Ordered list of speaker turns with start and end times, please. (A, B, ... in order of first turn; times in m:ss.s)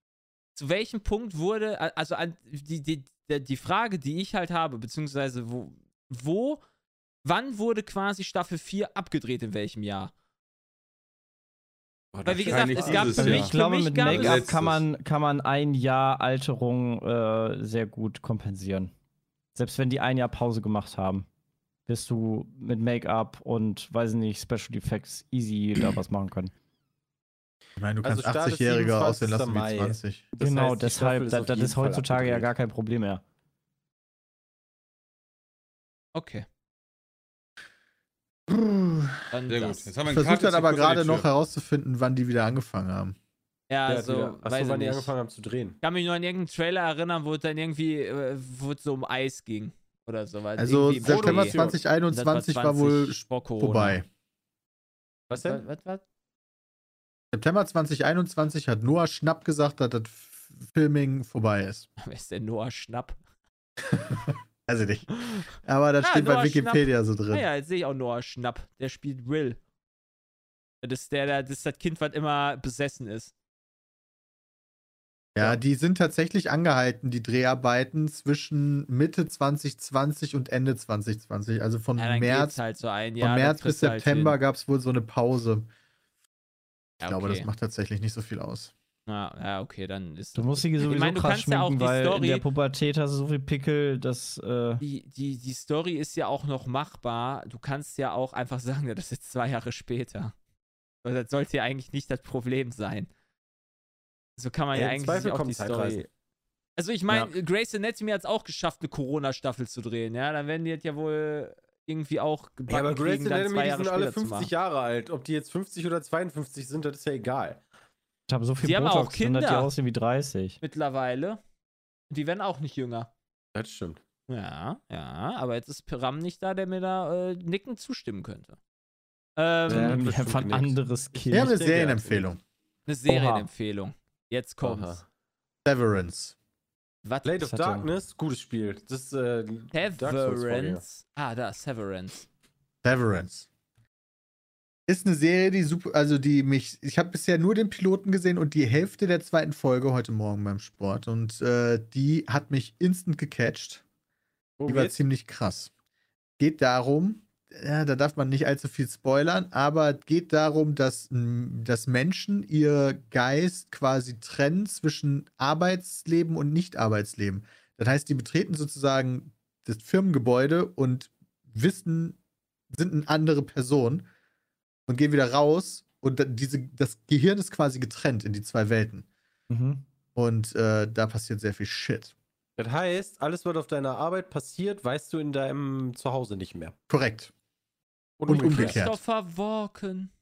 0:00.6-0:06.6 A
0:07.2-0:10.1 A
0:12.1-0:13.5 B
0:12.3-0:14.4 A
0:12.4-0:14.8 C
0:13.1-0:18.9 D
0:19.6-0:21.3 D
0:21.9-0:26.5 D
0:27.8-0:30.2 E
0:28.0-0:32.5 B
0:30.4-0:33.2 D
0:36.1-0:36.4 A
0:38.5-0:39.2 E
0:39.3-0:39.9 A
0:39.5-0:41.3 C
0:40.1-0:43.2 E
0:43.7-0:45.1 A
0:43.9-0:45.8 B
0:45.8-0:54.0 A
0:50.6-0:54.1 E
0:51.0-0:51.8 B
0:55.3-0:55.6 B
0:55.3-0:56.0 A
0:57.3-1:01.9 E
1:02.0-1:03.2 A
1:03.9-1:07.5 E
1:06.0-1:09.6 A
1:10.8-1:13.3 A
1:15.4-1:22.6 E
1:22.0-1:24.4 A
1:23.2-1:25.7 E
1:27.0-1:27.5 A
1:27.0-1:28.7 E
1:29.1-1:32.4 A
1:30.4-1:34.8 D
1:34.8-1:40.3 A
1:41.0-1:43.1 A
1:44.4-1:46.0 A
1:44.7-1:46.1 B
1:46.8-1:54.5 A
1:52.7-1:57.6 B
1:58.3-2:00.6 D
1:58.6-1:59.7 A
2:00.6-2:01.4 A
2:02.1-2:03.1 A
2:03.5-2:04.0 B
2:04.3-2:08.6 A
2:09.4-2:10.0 A
2:09.7-2:12.3 B
2:09.7-2:11.6 D
2:11.3-2:12.4 E
2:12.9-2:15.0 A
2:13.1-2:13.5 D
2:14.6-2:15.0 B
2:15.6-2:16.4 E
2:17.2-2:20.8 B
2:17.4-2:17.9 D
2:19.7-2:22.3 A
2:22.8-2:23.5 E
2:24.9-2:33.8 E
2:34.6-2:35.0 B
2:34.7-2:35.7 E
2:36.4-2:52.2 E
2:52.7-2:54.1 E
2:54.9-2:59.1 E
2:59.5-2:59.8 D
3:00.2-3:02.1 E
3:02.6-3:06.8 B
3:06.9-3:07.3 E
3:08.2-3:08.8 B
3:08.3-3:09.0 E
3:08.3-3:10.1 A